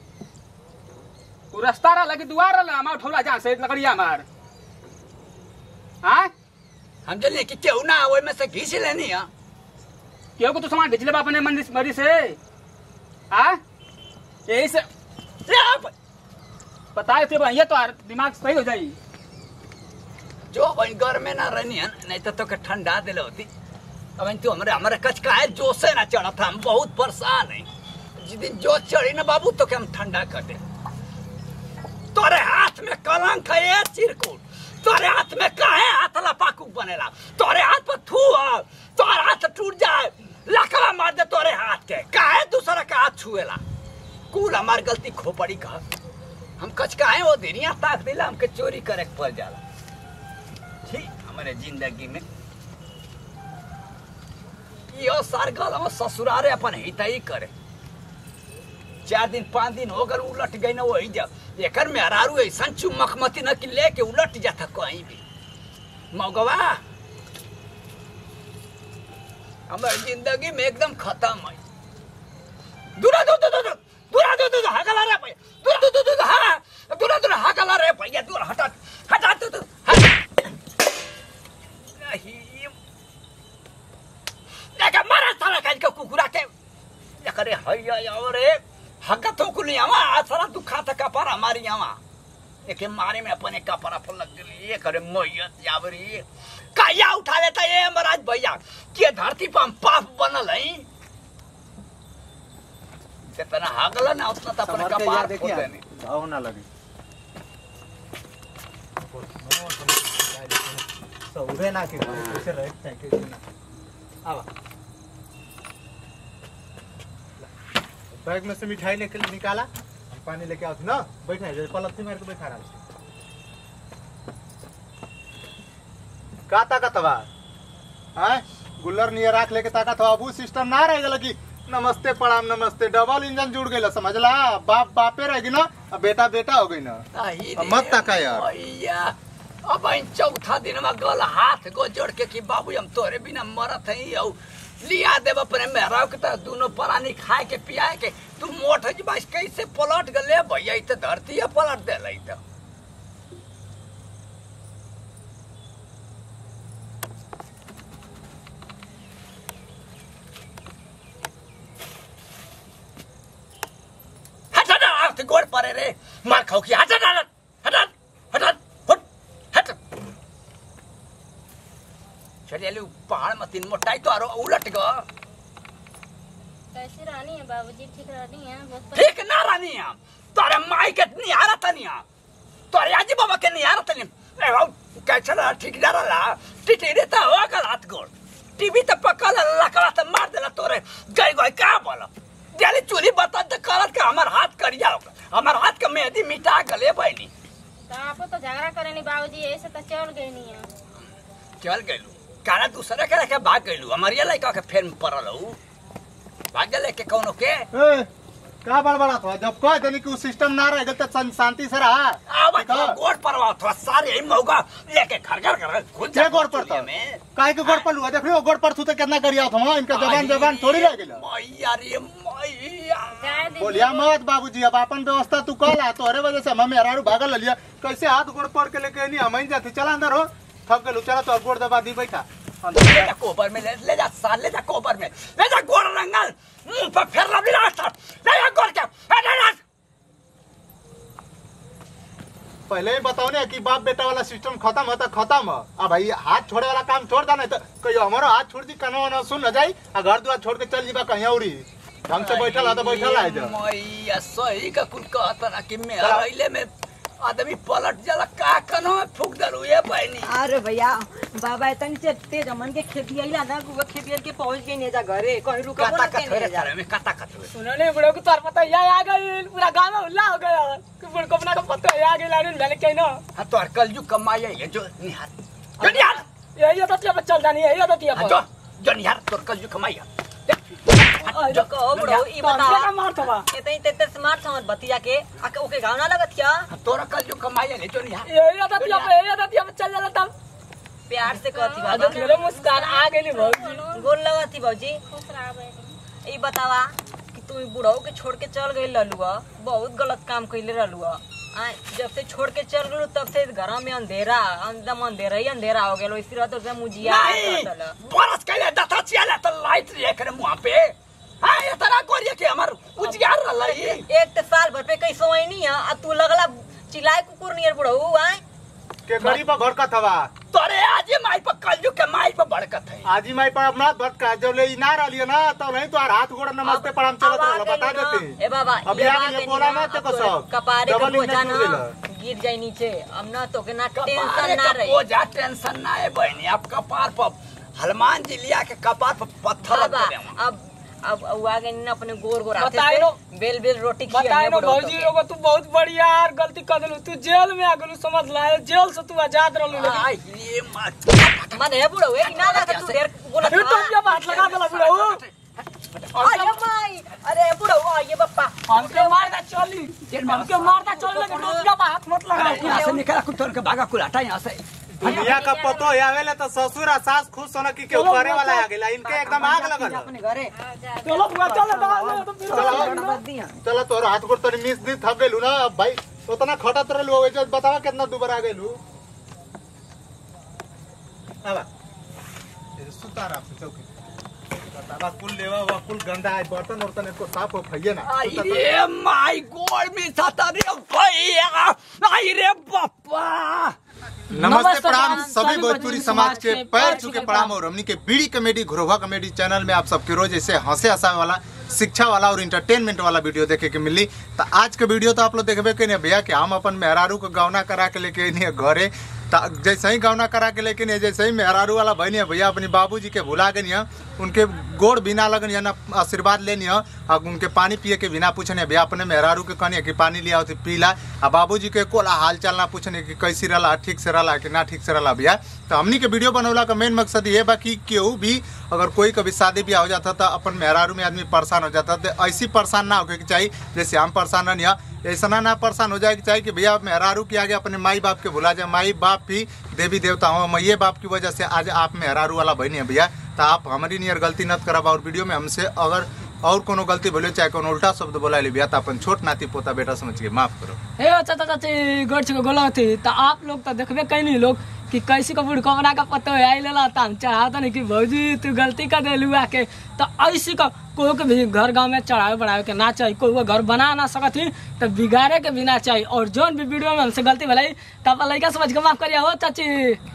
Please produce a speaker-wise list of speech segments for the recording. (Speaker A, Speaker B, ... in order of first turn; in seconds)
Speaker A: 1.5-4.2, 6.0-6.3, 10.4-12.4, 13.3-13.6, 14.5-14.8, 16.9-18.9
Speaker B: 7.0-9.3, 15.4-15.9, 20.5-23.5, 24.2-30.6, 32.1-43.6, 44.3-45.8, 46.6-49.6, 50.9-52.2, 54.9-57.5, 59.0-65.2, 66.1-66.8, 69.7-71.6, 73.0-80.3, 82.0-82.7, 84.8-86.5, 87.2-92.0, 92.7-100.9, 103.3-105.8, 137.1-139.1, 139.7-152.4, 164.5-169.8, 172.5-175.0, 178.9-182.0, 182.7-197.3, 201.6-205.6, 206.5-207.7, 212.3-217.9, 219.9-223.5, 232.8-239.6, 252.1-260.3, 265.8-267.5, 273.3-276.2, 278.1-282.2, 286.7-289.1, 307.0-314.0, 320.5-323.1, 333.9-340.4, 349.7-353.0, 354.1-356.6, 360.1-360.8, 362.3-365.3, 388.0-393.8
Speaker C: 104.6-106.7, 109.1-113.4, 118.1-122.8, 126.5-127.3, 128.2-137.0, 137.6-138.5, 207.7-208.1, 208.6-213.0, 216.1-221.2, 223.6-233.1, 242.7-253.6, 256.0-256.3, 319.1-320.3, 323.0-331.9, 364.9-370.1, 372.5-373.0, 373.6-378.8, 382.8-383.9, 384.7-388.6, 394.4-450.8
Speaker D: 176.7-179.2, 197.9-200.7, 223.2-224.1, 291.2-294.1, 295.1-296.0, 365.1-366.0, 370.5-371.4
Speaker E: 260.2-266.7, 281.4-282.9, 283.5-286.7, 291.1-292.4, 293.9-295.0, 296.2-307.9, 313.0-318.4, 326.6-335.0, 339.6-345.1, 351.5-354.0, 356.1-359.1, 360.8-361.7, 362.5-362.9, 369.0-370.5, 371.4-373.6, 394.5-397.3
Speaker F: 267.5-273.2, 276.6-278.4, 281.2-283.5, 288.2-290.3, 291.9-293.8, 342.6-343.2, 344.1-350.1, 353.4-355.2, 358.7-363.0, 367.9-368.7, 371.0-373.2, 394.3-397.5, 451.0-470.0